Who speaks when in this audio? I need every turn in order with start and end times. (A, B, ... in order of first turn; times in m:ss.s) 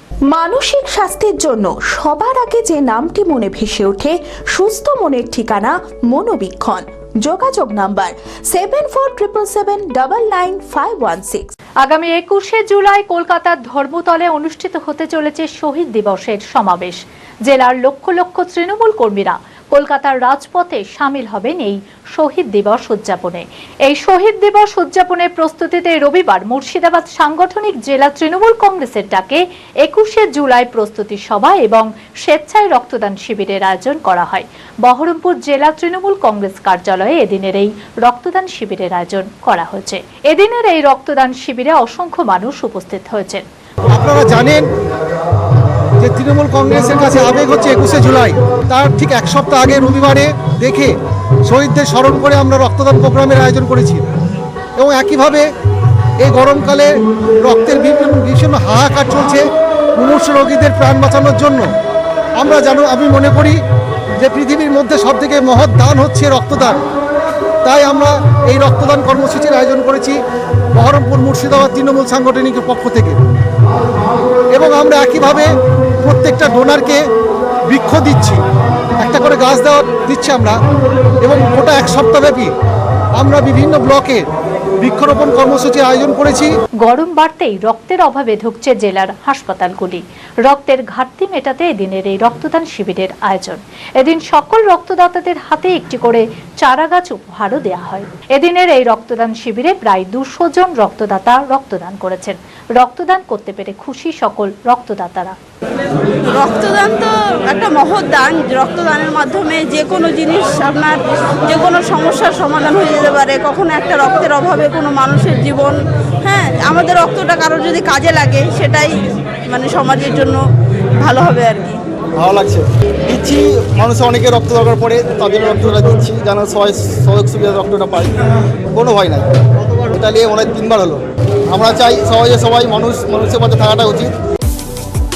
0:00.3-0:11.5 A
0:11.8-0:43.4 B
0:43.9-0:44.6 C
0:46.0-0:50.9 C
0:51.5-0:54.0 C
0:54.8-0:55.5 C
0:56.2-0:59.4 C
1:00.0-1:01.7 C
1:02.4-1:03.6 C
1:04.2-1:06.8 C
1:07.6-1:10.2 C
1:10.8-1:13.2 C
1:14.5-1:15.5 C
1:16.0-1:17.0 C
1:17.7-1:18.4 C
1:19.0-1:20.6 C
1:21.2-1:22.5 C
1:23.2-1:24.2 C
1:24.8-1:26.5 C
1:26.8-1:45.4 B
1:46.3-2:00.4 D
2:01.0-2:01.8 D
2:02.2-2:14.1 E